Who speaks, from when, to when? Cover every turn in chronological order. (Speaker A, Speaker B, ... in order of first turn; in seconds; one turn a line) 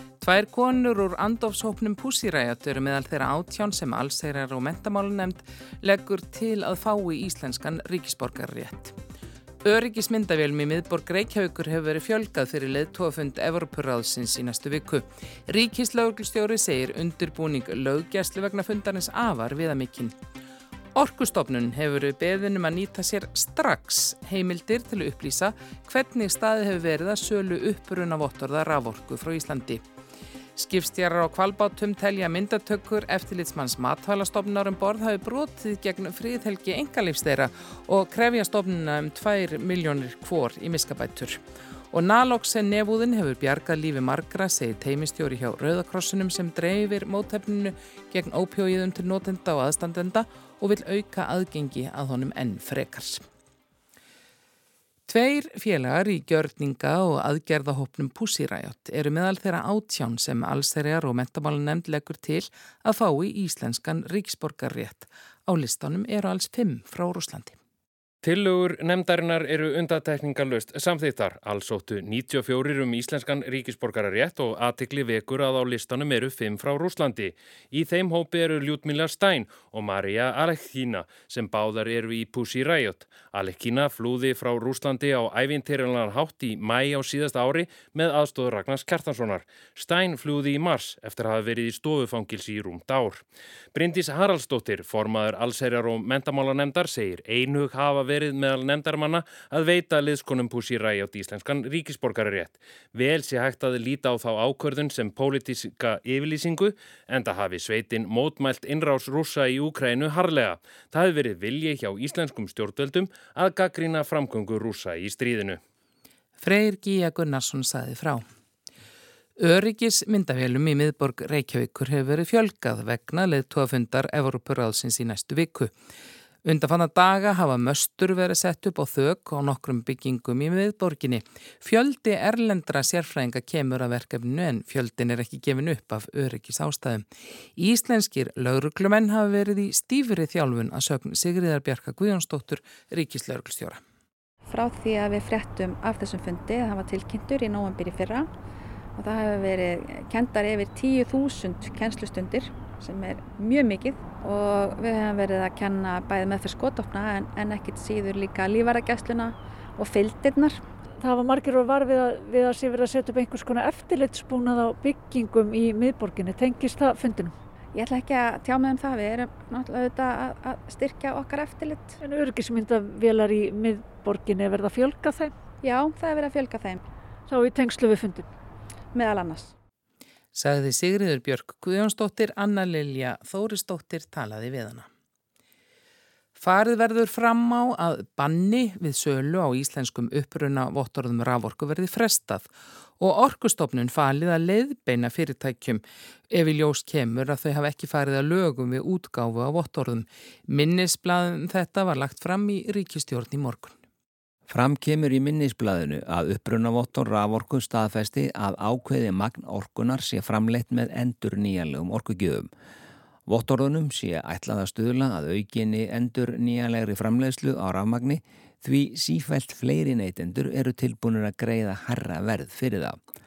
Speaker A: 0.2-9.0
Speaker A: 9.6-20.1
Speaker A: 20.9-29.8
Speaker A: 30.6-41.4
Speaker A: 41.9-53.2
Speaker A: 55.1-67.6
Speaker B: 68.2-115.6
Speaker A: 116.4-118.2
Speaker A: 119.4-125.7
Speaker A: 126.4-137.0
Speaker A: 137.6-143.8
Speaker C: 144.5-148.3
Speaker C: 149.0-160.6
Speaker D: 161.0-167.3
Speaker C: 167.7-172.0
Speaker D: 172.0-175.3
Speaker C: 175.6-176.8
Speaker D: 177.3-178.2
Speaker C: 178.9-179.5
Speaker A: 180.3-184.9
Speaker A: 186.4-192.5
Speaker A: 193.0-203.8
Speaker E: 204.5-212.5
Speaker E: 213.3-223.0